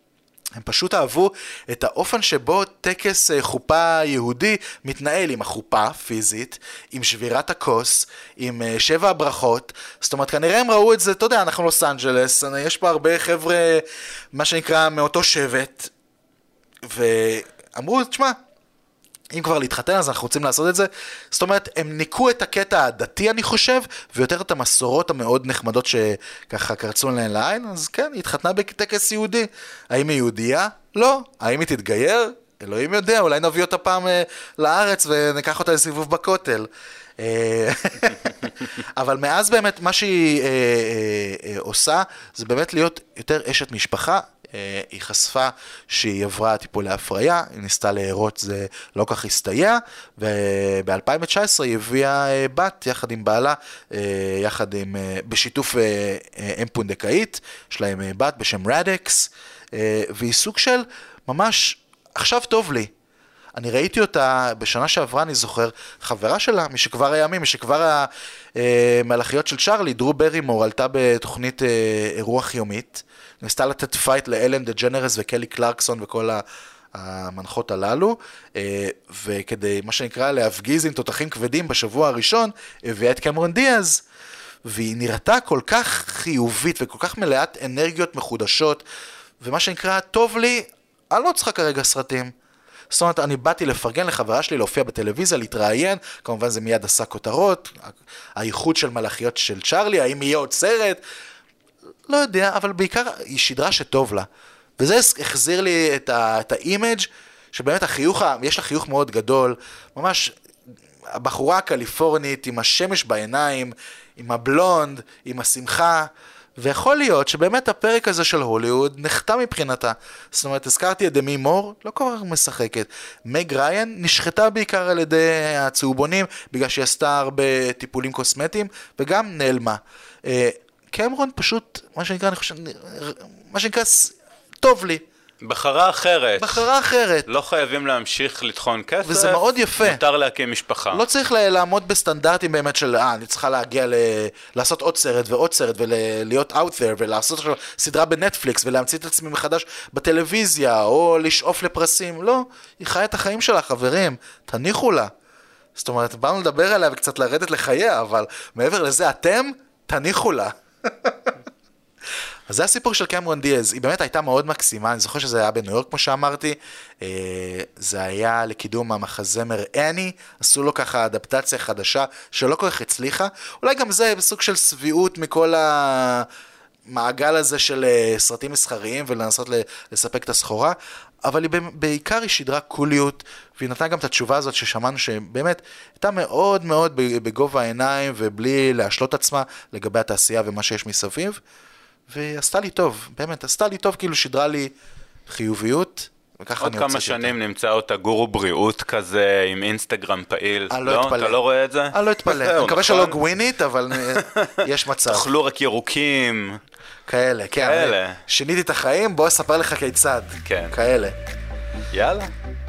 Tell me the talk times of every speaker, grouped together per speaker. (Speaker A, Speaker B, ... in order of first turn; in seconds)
Speaker A: 0.6-15.9, 16.9-18.4, 19.3-62.9, 63.6-84.0, 84.7-88.8, 89.4-92.3, 92.9-101.0, 102.1-104.3, 104.8-110.3, 111.1-135.0, 136.4-137.3, 139.1-140.0, 140.9-155.1, 155.8-161.3, 162.5-176.3, 176.9-191.4, 192.1-194.7, 195.3-197.3, 200.7-201.4, 201.9-205.3, 207.1-211.2
Speaker B: 135.4-136.7, 137.3-141.0, 196.6-203.2, 203.9-206.6, 207.6-208.2, 210.4-210.8, 211.9-212.3